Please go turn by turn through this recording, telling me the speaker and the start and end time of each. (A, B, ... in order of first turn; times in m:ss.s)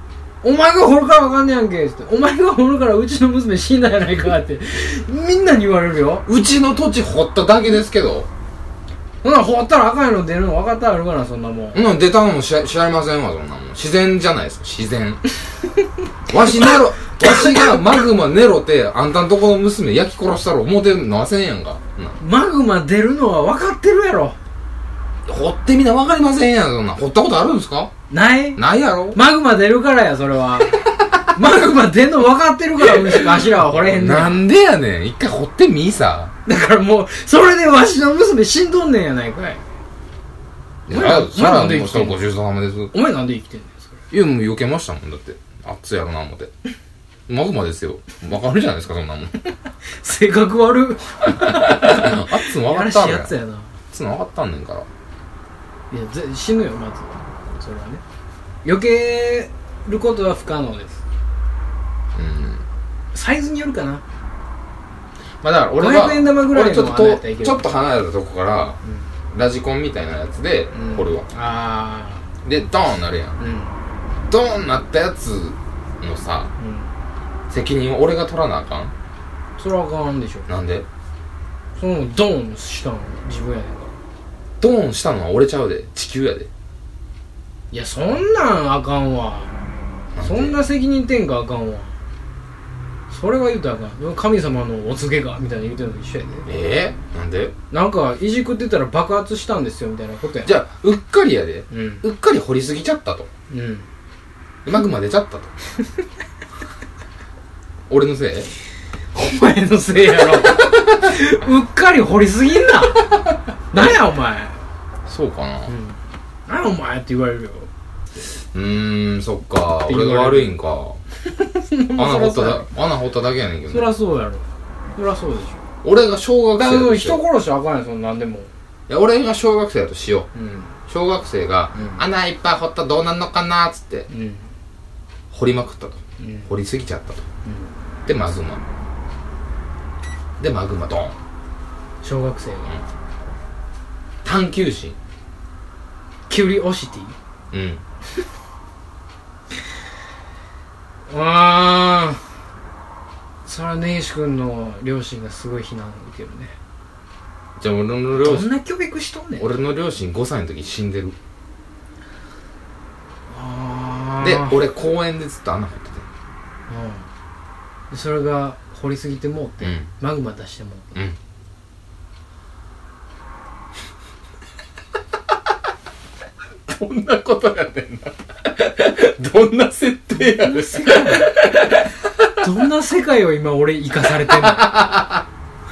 0:00.4-0:06.2 A
0:06.3-0:08.3 B
0:09.2-0:11.8 A
0:11.7-0:15.2 B
0:16.3-0:22.2 B
0:16.5-0:17.8 A
0:22.2-0:24.4 A
0:25.2-0:27.9 B
0:28.1-0:30.8 A
0:28.6-0:29.2 B
0:31.3-0:34.4 A
0:32.8-0:36.3 B
0:36.4-0:39.6 A
0:40.9-0:42.9 B
0:40.9-0:42.2 A
0:42.9-0:44.0 A
0:44.1-0:46.5 B
0:47.3-0:49.4 B
0:49.8-0:53.7 A
0:51.2-0:53.3 B
0:53.9-0:54.9 B
0:55.9-0:58.0 A
0:58.6-1:01.0 A
1:02.1-1:02.6 B
1:03.1-1:04.0 A
1:05.4-1:08.8 B
1:05.8-1:07.7 A
1:08.8-1:09.1 A
1:09.3-1:11.3 B
1:10.7-1:12.3 A
1:12.4-1:13.4 B
1:13.4-1:13.8 A
1:14.3-1:16.5 B
1:16.6-1:16.9 A
1:17.5-1:18.9 B
1:19.6-1:20.5 A
1:20.5-1:20.8 B
1:21.8-1:23.9 A
1:24.6-1:26.5 B
1:27.7-1:29.6 A
1:30.1-1:30.6 B
1:30.2-1:32.0 A
1:33.1-1:36.5 A
1:36.4-1:37.5 B
1:37.7-1:40.5 A
1:40.4-1:43.3 B
1:41.7-1:42.0 A
1:43.5-1:43.9 A
1:44.6-1:45.5 B
1:47.9-1:48.5 B
1:49.1-1:53.2 A
1:53.7-1:54.6 A
1:55.1-1:55.7 B
1:55.7-1:57.7 A
1:58.5-2:01.0 B
1:59.8-2:00.5 A
2:01.3-2:02.7 A
2:01.9-2:03.9 B
2:03.7-2:05.6 A
2:05.8-2:07.2 B
2:06.6-2:08.5 A
2:08.9-2:10.3 B
2:10.3-2:10.7 A
2:10.9-2:14.1 B
2:11.7-2:12.0 A
2:14.1-2:14.5 A
2:15.3-2:17.2 B
2:16.2-2:16.5 A
2:17.4-2:17.7 A
2:18.0-2:18.7 B
2:20.4-2:21.2 B
2:22.0-2:22.8 A
2:24.2-2:25.0 B
2:26.3-2:27.2 A
2:27.5-2:27.8 B
2:31.1-2:32.2 A
2:33.4-2:36.6 A
2:37.6-2:38.5 B
2:38.1-2:39.6 A
2:39.4-2:41.2 B
2:43.3-2:44.6 A
2:44.2-2:46.0 B
2:46.7-2:47.1 A
2:47.9-2:50.9 A
2:49.6-2:49.9 B
2:56.7-3:02.4 B
3:00.1-3:01.4 A
3:02.4-3:04.7 A
3:04.2-3:05.2 B